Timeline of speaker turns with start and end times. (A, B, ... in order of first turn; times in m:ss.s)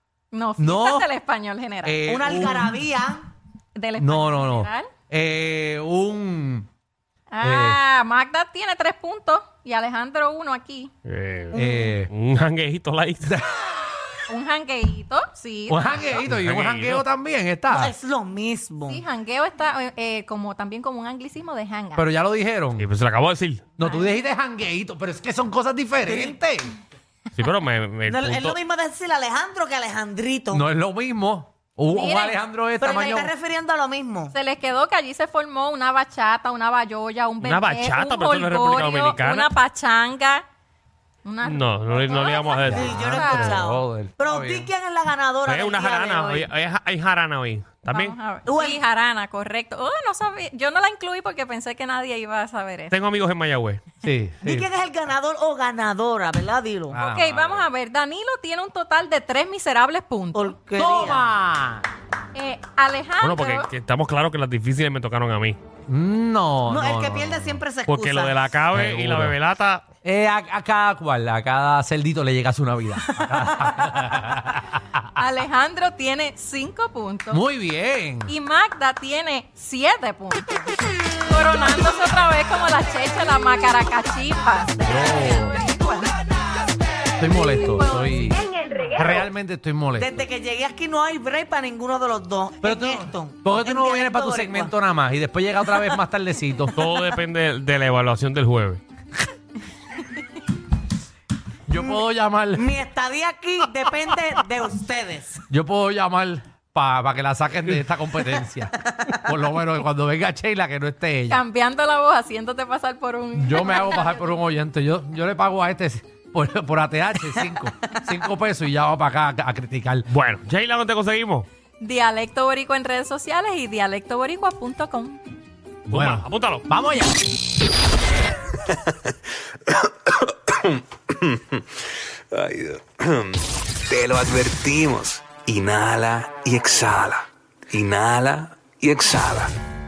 0:00.3-0:02.6 A
0:00.6-0:01.1 B
0:01.8-0:02.7 B
0:02.1-0:03.3 C
0:03.8-0:04.9 A
0:04.0-0:06.7 B
0:07.3-0:10.9 A
0:07.4-0:07.8 B
0:11.0-0:13.4 D
0:11.5-0:12.1 B
0:11.6-0:11.9 C
0:13.3-0:13.8 B
0:14.3-0:16.2 A
0:15.7-0:17.9 B
0:16.2-0:17.0 D
0:17.7-0:19.0 C
0:18.9-0:22.1 A
0:22.0-0:22.9 B
0:22.8-0:23.7 D
0:23.8-0:26.7 B
0:23.8-0:24.2 A
0:26.1-0:26.4 C
0:27.4-0:28.6 D
0:28.1-0:30.6 C
0:30.5-0:33.3 B
0:31.9-0:32.4 A
0:32.8-0:34.3 C
0:34.3-0:40.4 A
0:37.4-0:39.5 D
0:41.2-0:43.6 A
0:41.4-0:43.1 D
0:42.6-0:44.7 B
0:42.7-0:46.5 C
0:45.4-0:48.2 D
0:47.9-0:53.0 A
0:48.5-0:48.8 C
0:52.9-0:53.8 D
0:54.0-0:54.7 B
0:54.4-0:57.0 C
0:56.9-0:57.5 B
0:56.9-1:00.6 A
0:57.4-0:57.6 D
1:00.3-1:01.3 C
1:00.8-1:01.8 B
1:02.3-1:03.7 A
1:03.2-1:05.6 D
1:05.9-1:07.6 B
1:06.7-1:08.4 C
1:07.9-1:09.8 D
1:08.7-1:09.4 B
1:10.0-1:14.7 B
1:15.2-1:17.4 A
1:17.3-1:18.3 B
1:18.3-1:25.7 A
1:24.8-1:25.6 B
1:27.2-1:30.2 B
1:27.4-1:28.5 A
1:28.7-1:29.1 C
1:30.0-1:34.7 C
1:32.6-1:36.8 B
1:36.8-1:38.8 D
1:41.7-1:42.7 B
1:41.8-1:42.0 C
1:42.6-1:45.4 C
1:45.5-1:51.4 B
1:51.3-1:54.4 A
1:53.3-2:00.1 B
2:00.1-2:01.5 D
2:01.8-2:05.2 A
2:05.9-2:07.2 B
2:05.9-2:06.7 D
2:09.8-2:11.6 E
2:12.3-2:19.5 E